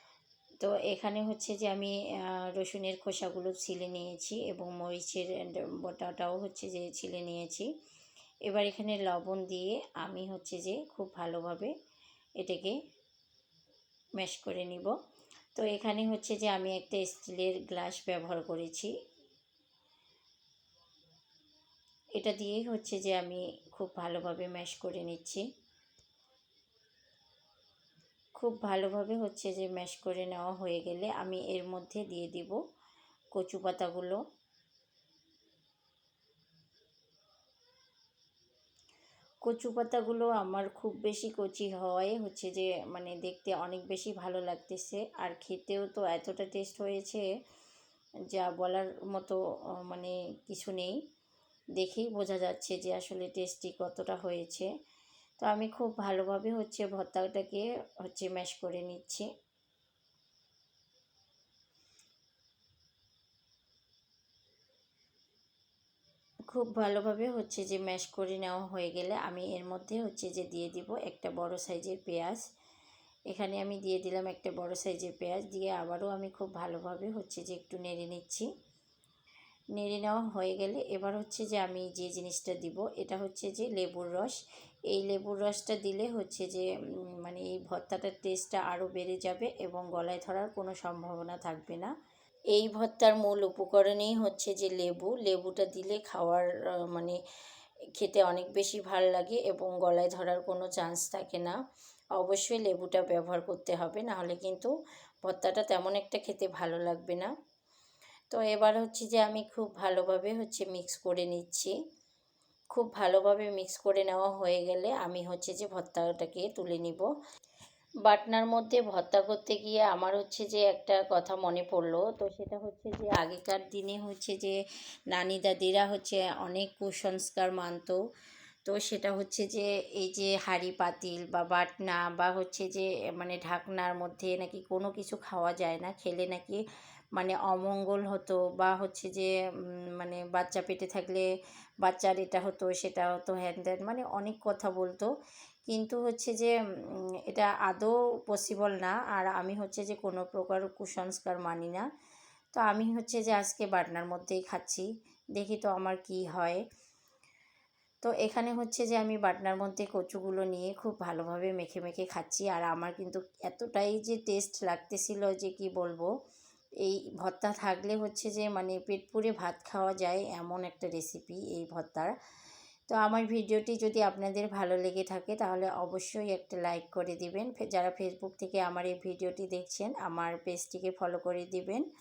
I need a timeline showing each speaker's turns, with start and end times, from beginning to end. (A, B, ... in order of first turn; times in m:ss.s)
0:00.6-0:07.7 A
0:08.4-0:11.7 A
0:12.4-0:12.8 A
0:14.2-0:14.9 A
0:15.5-0:18.9 A
0:22.2-0:25.4 A
0:28.4-0:32.6 A
0:33.3-0:34.2 A
0:39.4-0:47.3 A
0:48.3-0:51.0 A
0:51.8-0:54.7 A
0:55.4-0:59.3 A
1:06.5-1:12.4 A
1:13.3-1:18.5 A
1:19.7-1:24.4 A
1:24.9-1:31.9 A
1:32.5-1:37.2 A
1:37.9-1:41.6 A
1:42.2-1:47.3 A
1:48.3-1:51.7 A
1:52.7-1:57.1 A
1:58.0-2:04.6 A
2:05.1-2:08.0 A
2:08.6-2:16.6 A
2:17.1-2:19.3 A
2:20.0-2:21.3 A
2:21.8-2:25.1 A
2:25.7-2:31.8 A
2:32.5-2:36.6 A
2:38.0-2:46.1 A
2:46.8-2:52.1 A
2:52.9-3:01.8 A